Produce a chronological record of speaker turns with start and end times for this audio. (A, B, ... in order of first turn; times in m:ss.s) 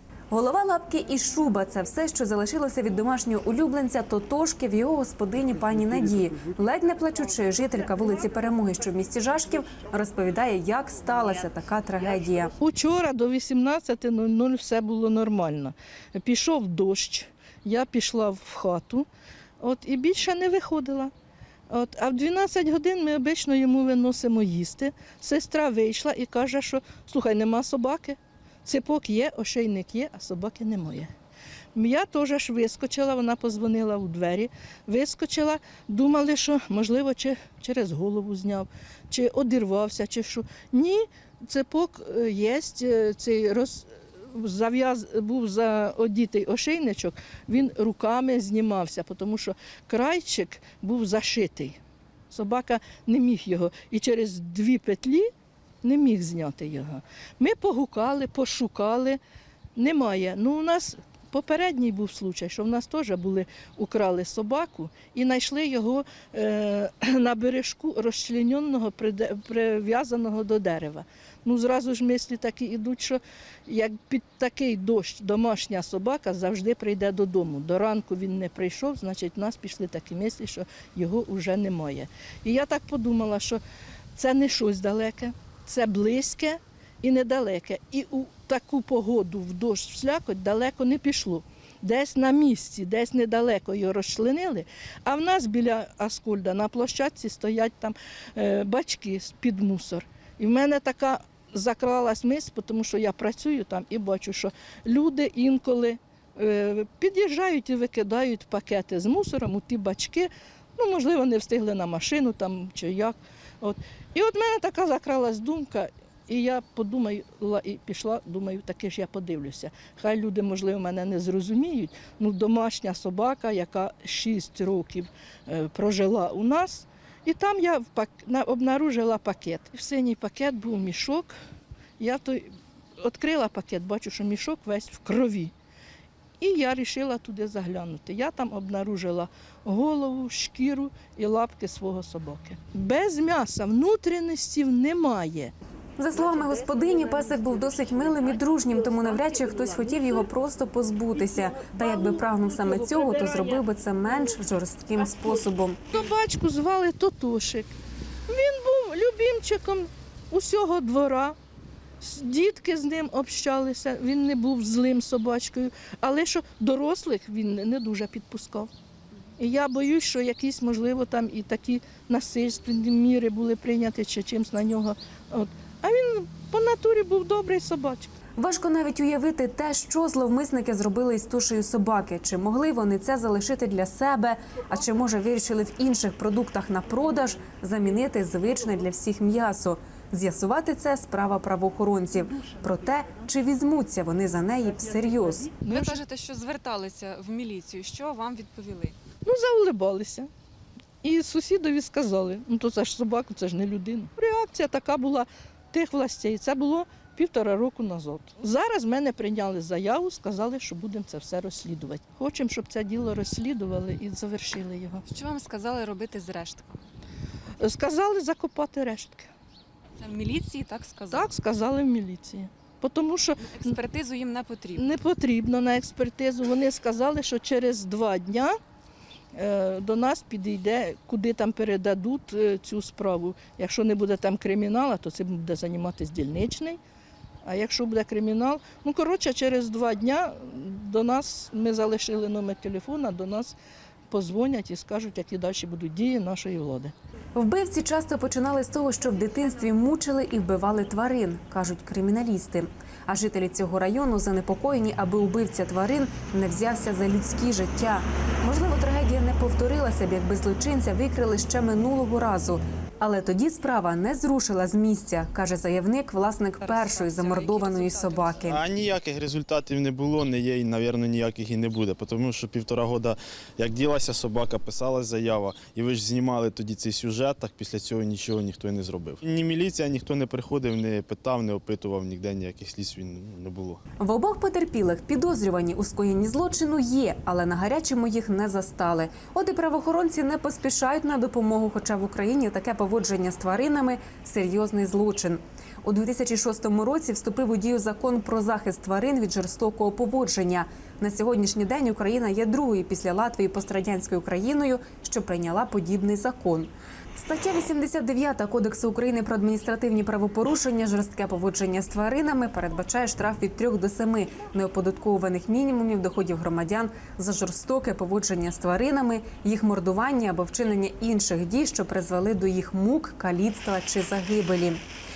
0:00.3-0:12.5 A
0:12.6-0:19.1 B
0:19.6-0:21.1 B
0:21.7-0:31.1 B
0:31.8-0:51.8 B
0:52.3-0:55.3 B
0:55.8-0:59.2 B
0:59.8-1:23.6 B
1:24.2-2:11.3 B
2:12.0-2:15.5 B
2:16.4-2:25.5 B
2:26.0-2:35.8 A
2:35.9-2:37.7 B
2:38.3-2:41.4 B
2:42.0-2:48.7 B
2:49.4-2:58.1 B
2:58.4-3:15.9 A
3:15.6-3:16.0 B
3:15.7-3:18.9 C
3:16.6-3:17.1 A
3:19.2-3:20.3 B
3:21.0-3:35.0 B
3:35.1-3:36.6 C
3:35.4-3:36.0 A
3:37.6-3:39.3 B
3:40.0-3:41.1 C
3:41.1-3:43.8 B
3:43.5-3:44.8 C
3:44.8-3:48.6 B
3:49.3-3:56.8 B
3:57.4-4:03.6 B
4:04.1-4:06.9 B
4:07.4-4:28.6 A
4:26.6-4:28.5 C
4:28.5-4:43.8 D
4:44.0-5:24.8 A